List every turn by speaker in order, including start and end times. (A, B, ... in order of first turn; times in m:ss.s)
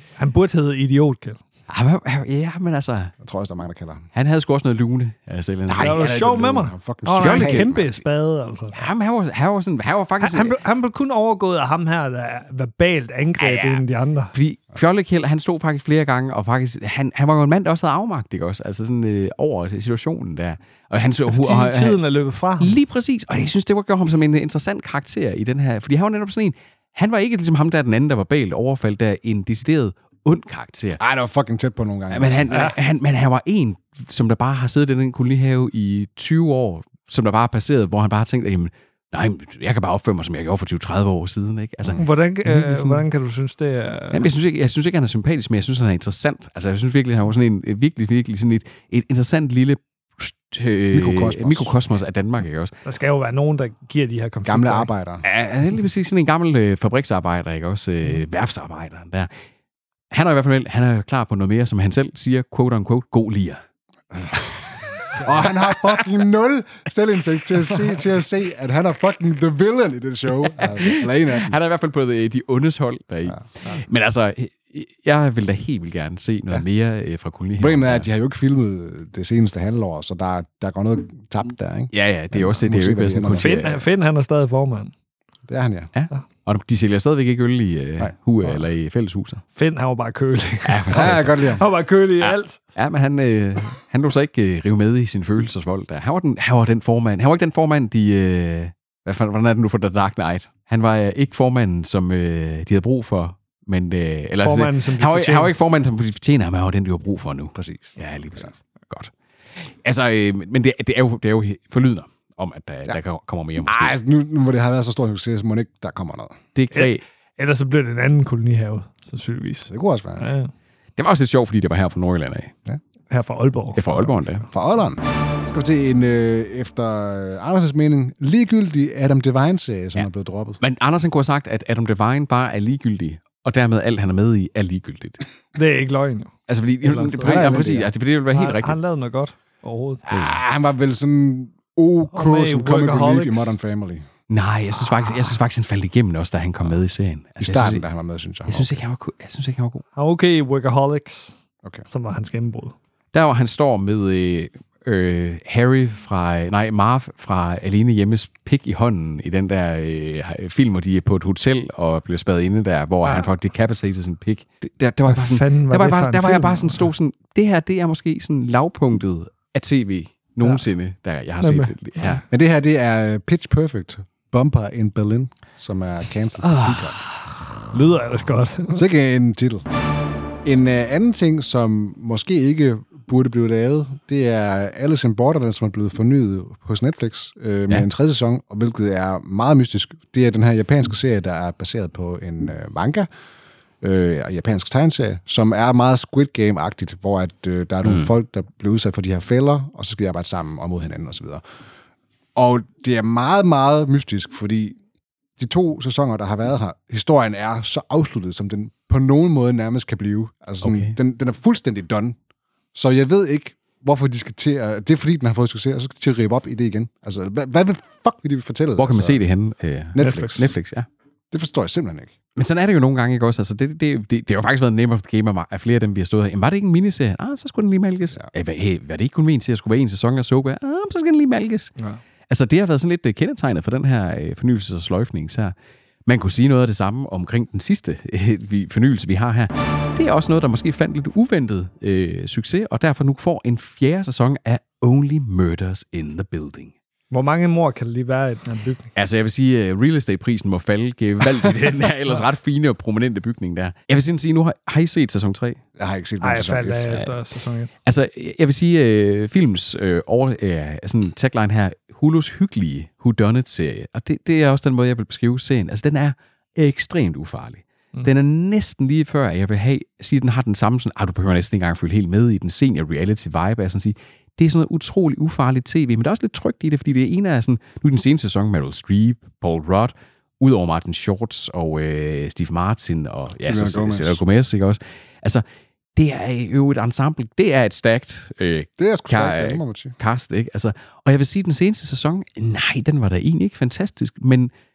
0:00.2-0:01.4 A
0:01.7-0:03.1 B
0:03.2-0:04.1 C
0:04.1-0:06.0 B
0:05.7-0:07.9 C
0:05.8-0:08.8 A
0:07.2-0:07.8 B
0:08.7-0:10.6 B
0:10.2-0:14.3 A
0:13.4-0:13.8 B
0:14.3-0:22.0 B
0:21.3-0:22.8 A
0:22.6-0:31.0 B
0:31.0-0:32.6 C
0:32.1-0:43.0 B
0:42.0-0:44.3 A
0:44.1-0:52.7 B
0:50.9-0:51.7 C
0:52.8-0:54.9 A
0:54.4-0:55.2 C
0:55.2-0:59.3 B
1:00.1-1:03.6 B
1:04.1-1:04.4 C
1:05.0-1:05.9 B
1:05.1-1:11.5 C
1:10.6-1:18.0 B
1:17.6-1:23.5 C
1:21.9-1:23.8 B
1:23.3-1:24.9 A
1:25.5-1:25.9 C
1:25.9-1:29.4 B
1:29.5-1:32.6 A
1:30.6-1:31.6 B
1:30.9-1:31.6 C
1:32.2-1:53.9 B
1:44.4-1:45.6 A
1:47.5-1:48.0 C
1:53.6-1:56.4 C
1:56.5-1:57.0 B
1:56.7-2:00.5 A
1:59.7-2:00.2 C
2:01.0-2:02.5 B
2:03.1-2:04.1 A
2:03.8-2:04.5 B
2:04.5-2:10.6 C
2:10.6-2:15.2 B
2:15.5-2:16.3 A
2:16.5-2:18.8 B
2:16.8-2:17.5 A
2:17.2-2:17.9 C
2:18.3-2:20.1 A
2:20.0-2:24.0 C
2:22.1-2:23.6 A
2:24.3-2:27.8 B
2:27.4-2:28.8 C
2:28.5-2:29.8 B
2:30.0-2:32.8 A
2:33.1-2:52.2 B
2:43.0-2:43.3 A
2:45.1-2:46.8 A
2:51.4-2:52.2 A
2:52.3-2:57.0 C
2:56.4-2:57.2 B
2:57.7-2:58.8 A
2:58.7-2:59.6 C
3:00.4-3:13.1 C
3:13.8-3:21.4 C
3:17.8-3:18.1 B
3:22.3-3:24.8 C
3:25.4-3:32.2 C
3:30.6-3:30.9 B
3:32.7-3:39.2 C
3:38.8-3:40.9 B
3:39.9-3:40.5 C
3:40.0-3:40.5 A
3:41.3-3:42.2 C
3:42.4-3:51.7 B
3:52.3-3:55.5 B
3:56.0-4:06.7 B
4:07.1-4:08.9 A
4:08.9-4:15.6 B
4:15.8-4:17.0 C
4:16.2-4:17.7 A
4:17.8-4:45.4 B
4:43.4-4:44.2 C
4:46.0-4:54.5 B
4:48.8-4:50.0 C